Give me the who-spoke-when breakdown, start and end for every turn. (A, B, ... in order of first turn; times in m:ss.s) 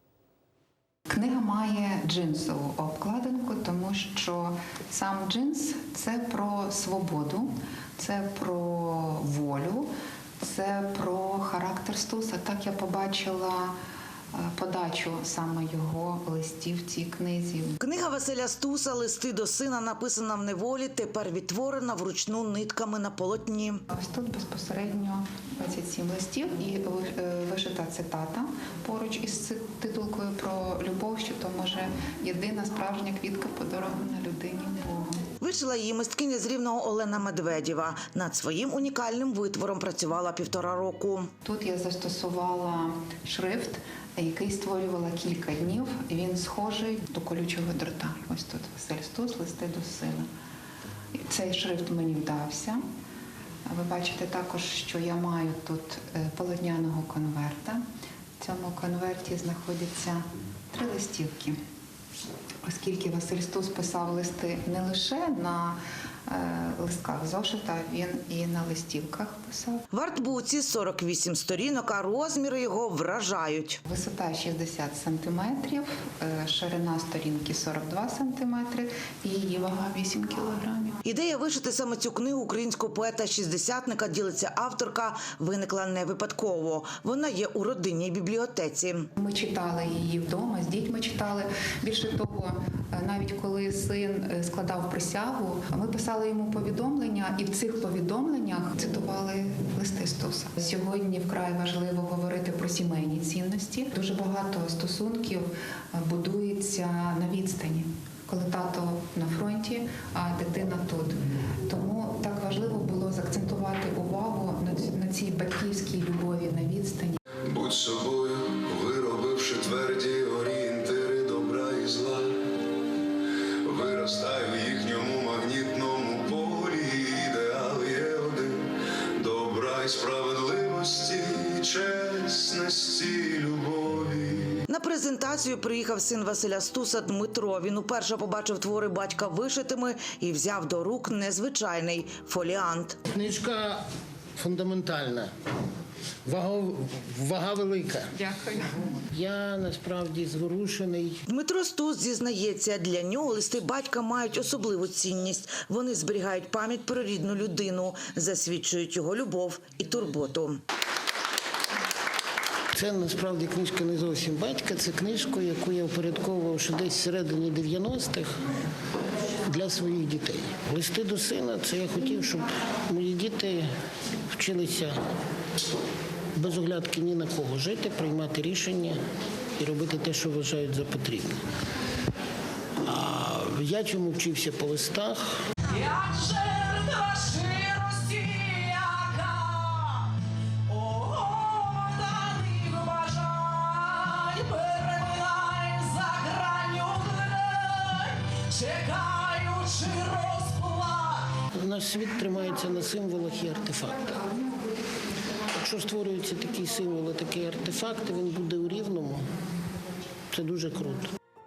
0:01.1-0:09.9 A
0:10.4-0:13.7 A
0:14.3-0:17.8 A
0:17.8-0:23.8 B
0:23.9-0:35.2 A
0:35.4-0:41.3 B
0:41.4-0:50.3 A
0:51.2-0:52.8 A
0:53.7-0:57.8 A
0:58.4-1:01.6 A
1:02.6-1:09.9 A
1:09.9-1:13.8 B
1:13.9-1:21.0 A
1:21.0-1:29.1 B
1:29.2-1:57.2 A
1:57.5-2:02.4 C
2:03.6-2:14.6 C
2:14.7-2:23.0 B
2:23.1-2:23.8 D
2:24.4-2:25.3 D
2:26.3-2:28.2 D
2:28.3-2:28.8 A
2:29.1-2:31.2 D
2:31.3-2:40.6 B
2:42.8-2:48.4 D
2:49.4-2:53.7 D
2:54.3-2:55.0 D
2:56.4-2:59.0 D
2:59.6-3:01.4 D
3:02.8-3:05.4 D
3:05.6-3:21.4 E
3:21.5-3:24.3 D
3:25.6-3:29.3 D
3:30.3-3:31.1 D